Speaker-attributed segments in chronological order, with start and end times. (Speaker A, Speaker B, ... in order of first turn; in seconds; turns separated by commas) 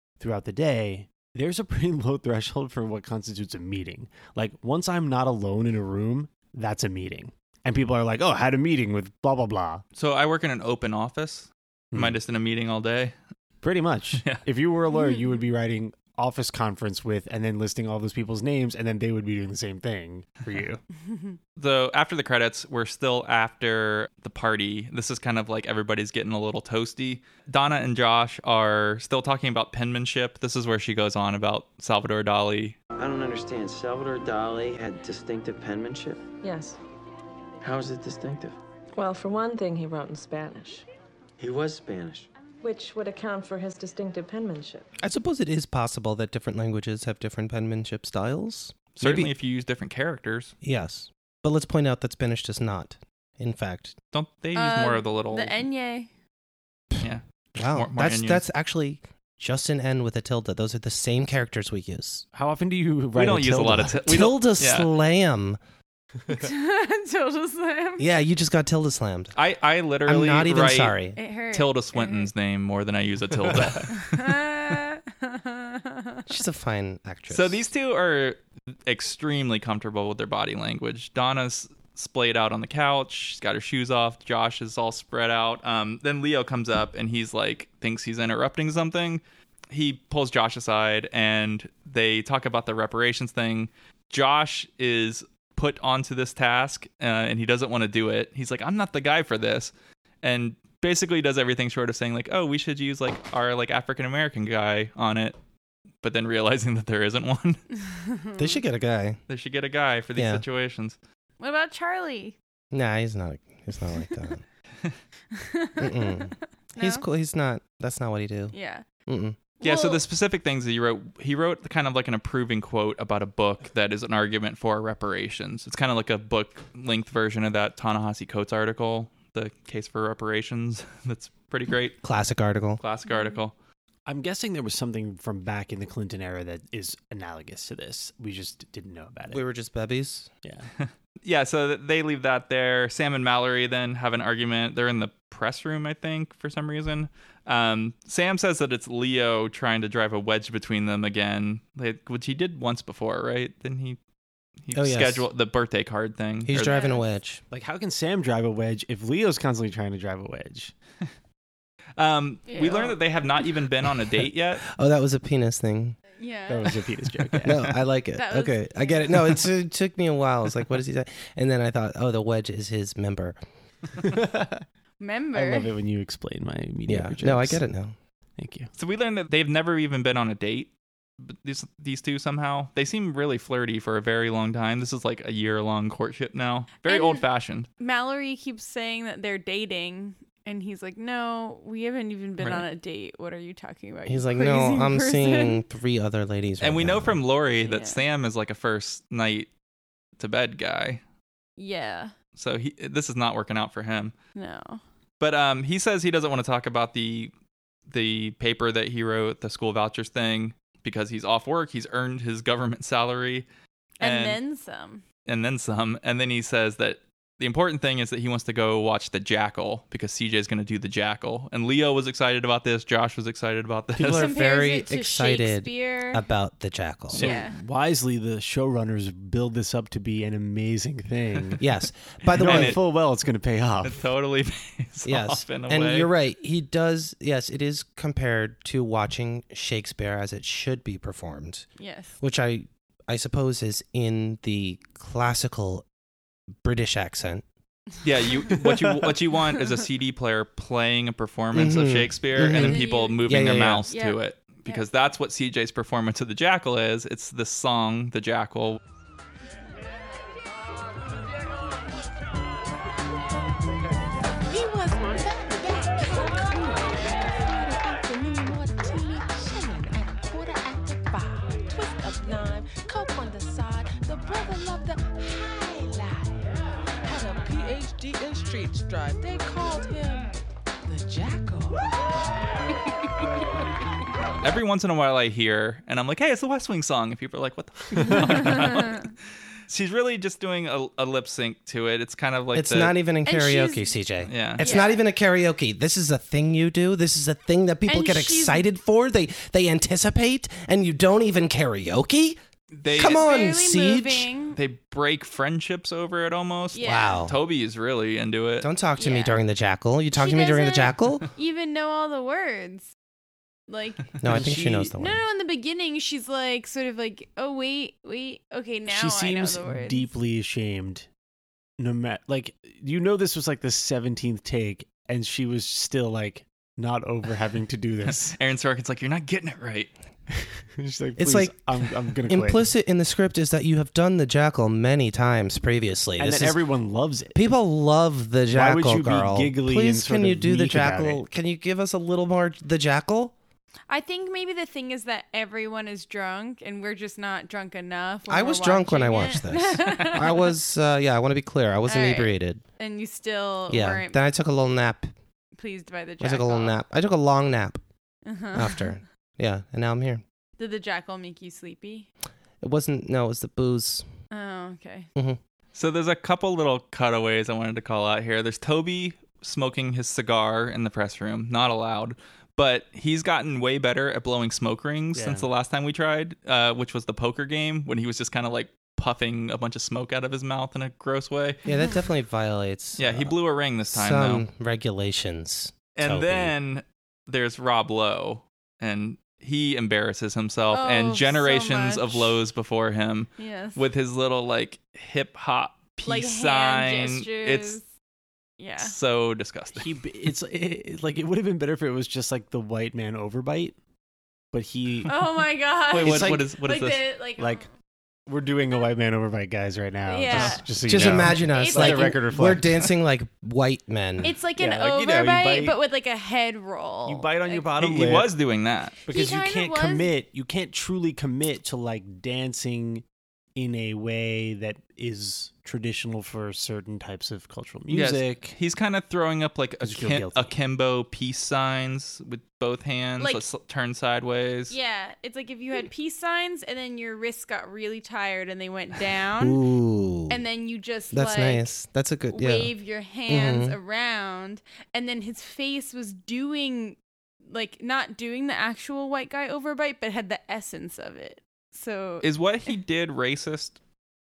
Speaker A: 0.2-9.8, Speaker B: 9.9-13.1, Speaker A: 13.6-20.8, Speaker C: 14.9-15.2, Speaker C: 21.0-21.4, Speaker B: 21.6-32.8, Speaker D: 33.0-36.2, Speaker E: 36.4-36.8, Speaker D: 37.6-38.6, Speaker E: 38.9-40.9, Speaker D: 41.4-42.3, Speaker E: 42.6-44.9, Speaker F: 45.0-49.3, Speaker B: 49.0-50.5, Speaker F: 50.6-54.0, Speaker B: 54.1-55.6, Speaker C: 54.5-56.1, Speaker F: 56.9-62.2, Speaker B: 57.0-58.4, Speaker A: 62.3-64.0, Speaker B: 63.1-64.9, Speaker F: 64.0-65.6, Speaker C: 66.3-68.1, Speaker F: 68.0-69.4, Speaker B: 69.4-71.0, Speaker F: 70.0-71.2, Speaker C: 71.2-72.3, Speaker B: 71.5-74.5, Speaker A: 73.5-73.8, Speaker C: 73.9-76.3, Speaker F: 76.3-77.7, Speaker B: 77.3-105.4, Speaker B: 106.0-107.6, Speaker C: 107.8-108.6, Speaker F: 108.4-109.2, Speaker B: 109.3-111.0, Speaker F: 110.2-110.4, Speaker C: 111.4-112.4, Speaker F: 112.7-114.4, Speaker C: 115.3-117.0, Speaker F: 115.8-118.5, Speaker C: 118.5-118.8, Speaker F: 119.1-119.4, Speaker C: 119.6-120.0, Speaker B: 119.6-132.0, Speaker F: 132.0-132.8, Speaker B: 132.8-133.5, Speaker C: 133.1-133.4, Speaker A: 134.1-139.4, Speaker F: 139.3-140.3, Speaker A: 140.4-140.7, Speaker B: 140.8-154.0, Speaker B: 154.6-156.8, Speaker F: 154.7-155.3, Speaker F: 156.4-157.4, Speaker C: 156.6-157.1, Speaker A: 157.5-160.7, Speaker B: 162.0-164.7, Speaker C: 162.5-163.0, Speaker F: 164.7-166.0, Speaker C: 166.2-166.7, Speaker A: 166.5-167.7, Speaker F: 167.4-173.4, Speaker C: 168.2-169.0, Speaker A: 174.0-174.6, Speaker C: 175.0-175.7, Speaker A: 175.3-177.6, Speaker F: 176.9-177.9, Speaker A: 178.4-178.7, Speaker B: 178.8-187.7, Speaker C: 186.9-187.2, Speaker C: 187.8-195.6, Speaker B: 192.4-192.7, Speaker F: 194.1-197.2, Speaker B: 196.6-199.5, Speaker C: 197.6-198.0, Speaker B: 200.2-201.0, Speaker C: 201.6-202.1, Speaker B: 202.3-204.1, Speaker C: 204.3-204.8, Speaker B: 205.2-207.3, Speaker B: 207.9-213.5, Speaker B: 214.0-214.4, Speaker C: 214.0-215.0, Speaker B: 215.3-224.3, Speaker F: 223.9-227.3, Speaker C: 224.1-226.2, Speaker A: 227.1-231.6, Speaker C: 227.1-227.6, Speaker F: 231.6-232.8, Speaker B: 232.3-232.8, Speaker A: 232.3-234.0, Speaker B: 233.8-236.1, Speaker F: 235.1-241.7, Speaker C: 241.8-242.2, Speaker F: 242.2-245.9, Speaker F: 246.6-247.4, Speaker B: 248.0-258.8, Speaker F: 251.5-253.9, Speaker C: 252.5-253.2, Speaker C: 253.9-254.8, Speaker G: 264.5-282.1, Speaker B: 284.4-289.1, Speaker A: 288.0-288.5, Speaker C: 288.5-289.0, Speaker B: 289.7-293.0, Speaker F: 292.5-302.4, Speaker C: 293.2-293.9, Speaker B: 294.3-294.6, Speaker C: 294.6-295.0, Speaker C: 297.9-298.6, Speaker B: 302.8-303.2, Speaker F: 302.9-304.3, Speaker C: 303.0-304.6, Speaker B: 304.6-308.7, Speaker C: 306.7-307.2, Speaker F: 306.8-307.4, Speaker F: 308.6-311.3, Speaker C: 309.0-309.4, Speaker C: 310.1-312.9, Speaker C: 313.7-320.1, Speaker F: 314.2-315.2, Speaker A: 314.2-314.9, Speaker A: 318.9-321.1, Speaker A: 321.8-328.4, Speaker B: 328.1-329.9, Speaker A: 330.3-332.6, Speaker F: 331.2-331.6, Speaker F: 332.3-336.6, Speaker A: 336.2-337.4, Speaker F: 337.3-343.4, Speaker A: 338.5-341.2, Speaker C: 343.9-350.5, Speaker F: 348.3-352.6, Speaker C: 351.9-354.2, Speaker F: 353.7-355.1, Speaker C: 355.6-356.8, Speaker F: 356.2-357.8, Speaker C: 358.3-359.0, Speaker F: 358.5-360.2, Speaker C: 360.6-362.1, Speaker F: 362.6-364.1, Speaker C: 364.3-365.1, Speaker B: 365.8-381.6, Speaker A: 375.1-375.5, Speaker F: 381.7-383.4, Speaker B: 383.0-384.4, Speaker F: 383.9-386.5, Speaker B: 386.0-397.8, Speaker C: 390.7-392.4, Speaker C: 393.4-393.8, Speaker C: 396.1-397.8, Speaker C: 398.6-398.9, Speaker B: 398.8-399.9, Speaker A: 399.8-403.8, Speaker A: 404.5-405.1, Speaker C: 405.1-407.7, Speaker B: 405.9-407.0, Speaker A: 406.0-406.4, Speaker A: 407.4-407.6, Speaker A: 408.3-412.9, Speaker C: 410.1-412.2, Speaker F: 410.3-414.3, Speaker C: 414.2-417.7, Speaker A: 414.6-415.8, Speaker A: 417.1-418.3, Speaker B: 417.8-419.0, Speaker A: 419.1-423.0, Speaker C: 419.1-420.1, Speaker A: 423.6-428.6, Speaker B: 427.9-434.7, Speaker A: 429.8-430.5, Speaker C: 433.2-433.5, Speaker C: 434.7-439.6, Speaker F: 439.4-440.4, Speaker C: 440.3-441.7, Speaker F: 441.1-442.7, Speaker C: 442.3-452.3, Speaker F: 443.3-443.8, Speaker B: 452.2-453.8